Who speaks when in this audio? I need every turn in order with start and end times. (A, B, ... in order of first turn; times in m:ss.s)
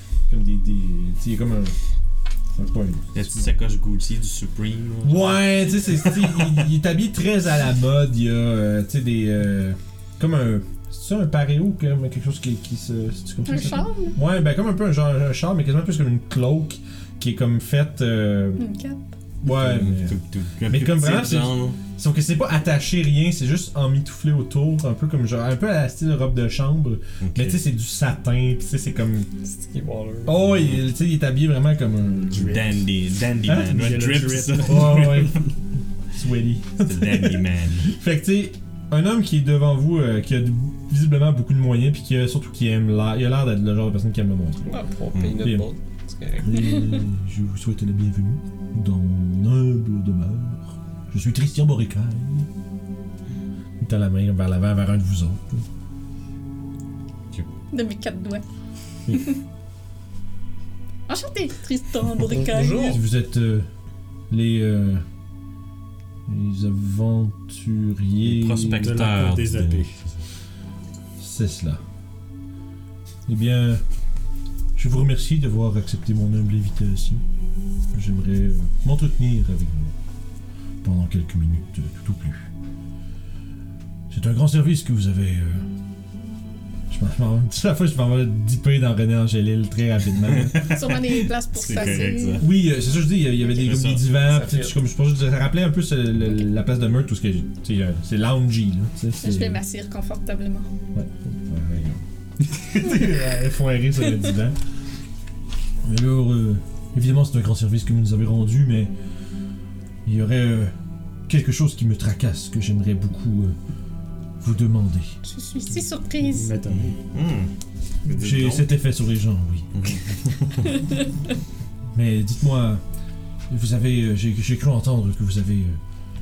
0:00.3-0:01.8 A
0:02.6-0:03.5 A
0:03.2-0:06.5 B
0:05.0-0:18.6 A
0:13.5-0:14.2 C
0:18.6-0:19.0 C
0:19.4-0:20.2 A
0:19.4-0:21.8 B
0:20.7-0:29.3 A
0:27.2-0:27.6 B
0:29.4-0:30.4 D
0:30.2-0:32.8 A
0:30.5-0:30.8 B
0:32.4-0:35.5 B
0:33.5-0:34.0 A
0:33.7-0:35.1 E
0:34.6-0:35.4 A
0:36.1-0:44.7 A
0:36.9-0:37.9 B
0:44.7-0:47.0 D
0:45.1-0:45.4 B
0:45.4-0:45.7 A
0:46.4-0:52.5 A
0:53.8-0:55.7 A
0:57.7-0:58.4 C
1:01.1-1:03.0 C
1:02.3-1:03.0 D
1:02.9-1:03.7 A
1:04.3-1:05.0 A
1:06.3-1:09.1 A
1:08.2-1:10.2 B
1:08.8-1:10.0 E
1:11.2-1:11.8 A
1:13.3-1:13.8 A
1:14.8-1:17.2 A
1:17.9-1:20.0 A
1:20.8-1:22.5 A
1:24.1-1:25.7 A
1:26.9-1:30.8 A
1:30.2-1:32.5 B
1:30.7-1:32.4 C
1:32.4-1:39.6 A
1:33.6-1:34.0 B
1:34.3-1:34.7 D
1:39.2-1:40.7 C
1:40.9-1:44.6 A
1:45.8-1:48.9 A
1:50.0-1:50.7 A
1:51.3-1:53.6 A
1:54.4-1:55.2 A
1:55.2-1:56.5 C
1:56.2-1:57.0 E
1:57.1-1:57.5 B
1:58.0-1:58.7 B
1:58.1-1:59.9 A
1:59.7-2:00.8 B
2:01.9-2:02.8 A
2:03.5-2:05.8 A